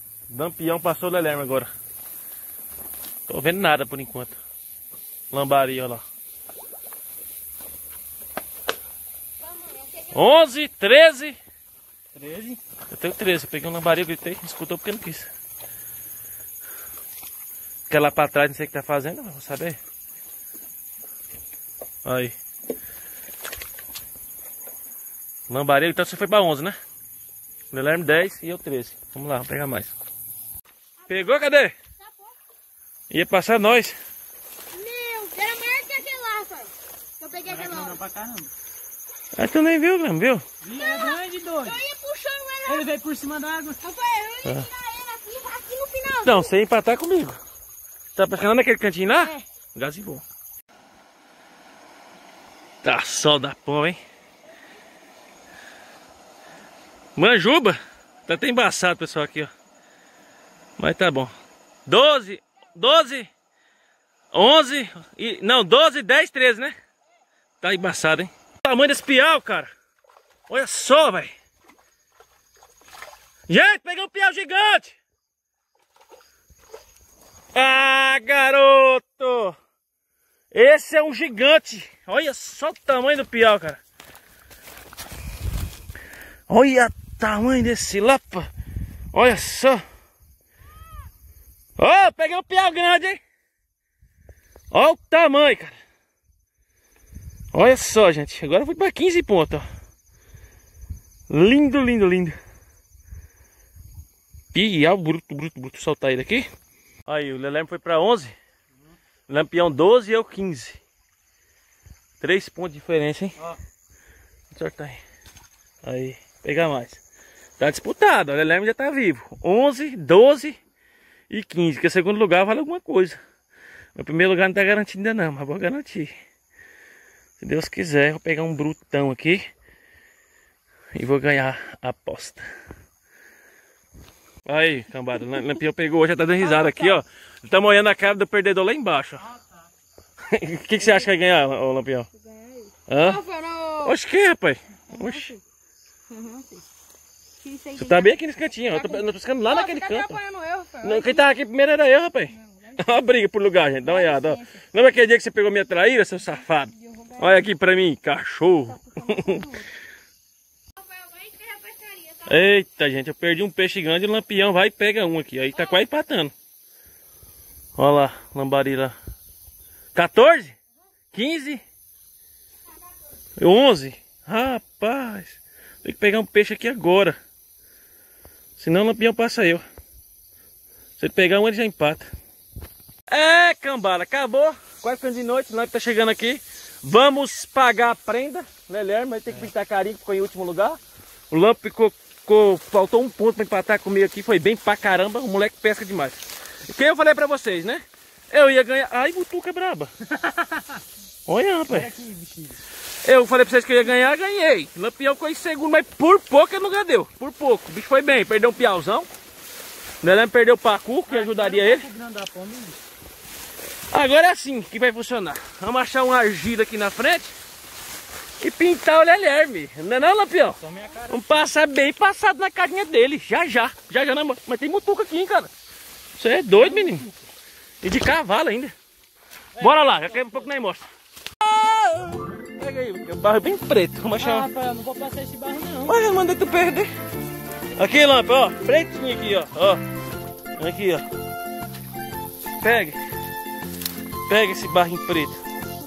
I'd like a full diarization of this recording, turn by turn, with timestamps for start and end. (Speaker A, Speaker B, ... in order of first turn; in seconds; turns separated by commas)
Speaker A: 0.3-1.7, Speaker A: 3.3-4.4, Speaker A: 5.3-6.0, Speaker B: 9.5-10.1, Speaker A: 10.1-11.4, Speaker C: 12.1-12.6, Speaker A: 12.9-15.3, Speaker A: 17.9-19.8, Speaker A: 22.1-22.4, Speaker A: 25.5-26.8, Speaker A: 27.7-29.9, Speaker A: 31.1-31.8, Speaker B: 32.0-32.4, Speaker A: 33.1-34.0, Speaker B: 34.7-38.0, Speaker C: 37.5-38.5, Speaker A: 39.4-40.5, Speaker C: 40.6-41.8, Speaker B: 40.8-42.9, Speaker C: 42.7-43.8, Speaker B: 43.8-46.5, Speaker A: 46.2-47.4, Speaker A: 48.1-50.2, Speaker A: 52.8-54.0, Speaker A: 57.2-59.5, Speaker A: 60.8-61.3, Speaker A: 61.9-63.3, Speaker A: 64.3-66.8, Speaker A: 67.6-69.7, Speaker A: 70.5-71.3, Speaker A: 73.5-75.0, Speaker A: 77.5-79.6, Speaker A: 80.5-83.8, Speaker A: 86.5-88.5, Speaker A: 89.1-89.8, Speaker A: 91.8-93.2, Speaker A: 94.7-95.8, Speaker A: 97.5-99.7, Speaker A: 101.3-102.4, Speaker A: 104.5-106.5, Speaker A: 107.1-108.3, Speaker A: 109.3-110.8, Speaker A: 112.2-113.4, Speaker A: 114.5-115.0, Speaker A: 115.8-117.0, Speaker A: 117.6-120.6, Speaker A: 121.3-123.2, Speaker A: 124.0-126.1, Speaker A: 127.4-129.5, Speaker A: 130.9-132.5, Speaker A: 134.4-139.3, Speaker B: 136.4-137.0, Speaker C: 139.3-139.5, Speaker A: 140.2-142.1, Speaker B: 140.8-141.1, Speaker B: 142.1-144.0, Speaker A: 142.9-143.2, Speaker A: 143.8-145.3, Speaker B: 144.9-145.4, Speaker B: 146.1-146.7, Speaker B: 147.4-148.1, Speaker A: 147.8-150.2, Speaker B: 148.7-151.3, Speaker A: 150.8-159.5, Speaker B: 152.4-152.9, Speaker B: 153.8-154.6, Speaker B: 156.7-157.4, Speaker B: 158.7-159.7, Speaker B: 160.8-162.3, Speaker A: 162.2-166.3, Speaker A: 167.8-169.0, Speaker A: 169.9-170.6, Speaker A: 171.1-171.6, Speaker A: 173.4-177.2, Speaker A: 178.6-179.7, Speaker A: 181.0-182.1, Speaker A: 183.1-190.8, Speaker A: 191.3-199.9, Speaker C: 200.1-200.8, Speaker A: 201.3-201.9, Speaker C: 201.7-202.6, Speaker A: 203.0-209.1, Speaker A: 210.0-211.9, Speaker C: 211.1-212.8, Speaker A: 213.9-217.3, Speaker A: 218.4-225.5, Speaker C: 220.6-221.5, Speaker A: 226.2-227.1, Speaker C: 226.5-227.2, Speaker A: 227.8-228.7, Speaker C: 229.6-230.5, Speaker A: 229.6-230.9, Speaker A: 231.4-234.5, Speaker C: 234.2-236.0, Speaker A: 235.9-236.9, Speaker A: 237.8-239.8, Speaker A: 240.6-241.1, Speaker A: 242.6-243.0, Speaker A: 244.3-245.4